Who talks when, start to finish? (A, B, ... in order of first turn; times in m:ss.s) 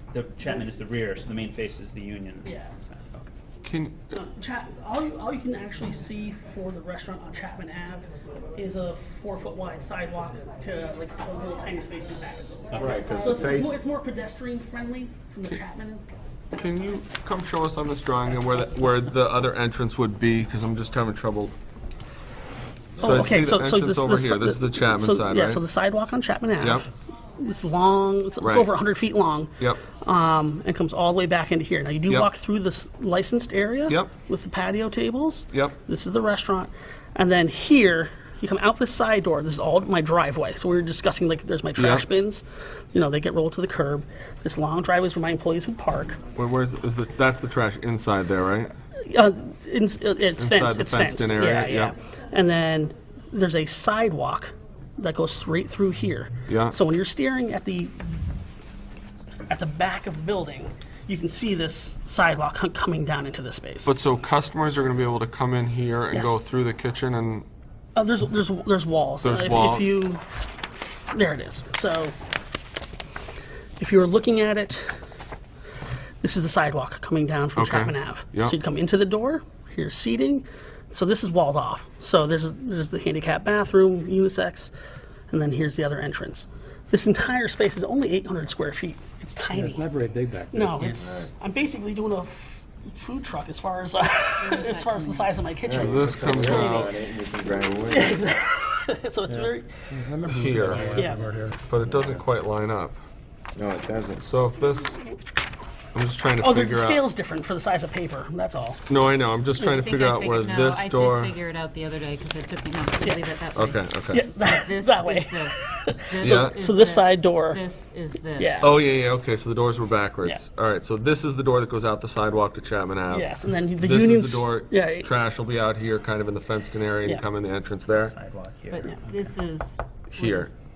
0:00.1-0:03.3 A
0:02.4-0:02.7 B
0:03.6-0:04.0 C
0:04.1-0:16.1 B
0:12.7-0:13.0 A
0:12.8-0:13.8 D
0:16.5-0:21.6 C
0:23.0-0:25.6 C
0:23.0-0:26.9 B
0:26.6-0:26.9 C
0:27.4-0:46.2 B
0:28.4-0:28.7 C
0:41.8-0:42.0 C
0:46.4-0:48.7 C
0:49.0-0:58.2 B
0:50.4-0:51.9 C
0:56.5-0:56.8 C
0:59.5-1:03.9 B
1:03.8-1:07.5 C
1:06.1-1:06.4 B
1:08.0-1:10.2 B
1:09.2-1:09.9 C
1:11.1-1:12.2 B
1:13.8-1:14.9 B
1:16.2-1:24.7 B
1:17.6-1:18.6 C
1:25.3-1:29.9 B
1:29.5-1:30.9 E
1:30.5-1:37.0 B
1:30.8-1:31.0 A
1:31.0-1:31.3 D
1:34.4-1:35.3 F
1:35.6-1:38.2 D
1:35.7-1:37.0 C
1:37.9-1:40.1 B
1:39.3-1:41.7 E
1:40.2-1:41.0 C
1:40.9-1:41.4 B
1:41.6-1:43.0 C
1:41.8-1:42.2 D
1:43.6-1:44.3 D
1:44.2-1:45.0 C
1:45.9-1:47.0 C
1:46.4-1:48.9 B
1:48.9-1:51.4 C
1:49.6-1:58.8 F
1:53.6-1:54.3 C
1:54.1-1:57.6 B
1:56.2-1:56.6 C
1:58.4-1:58.8 B
1:58.6-2:08.2 C
2:03.1-2:05.1 B
2:07.9-2:09.3 A
2:08.7-2:10.5 F
2:10.1-2:10.5 C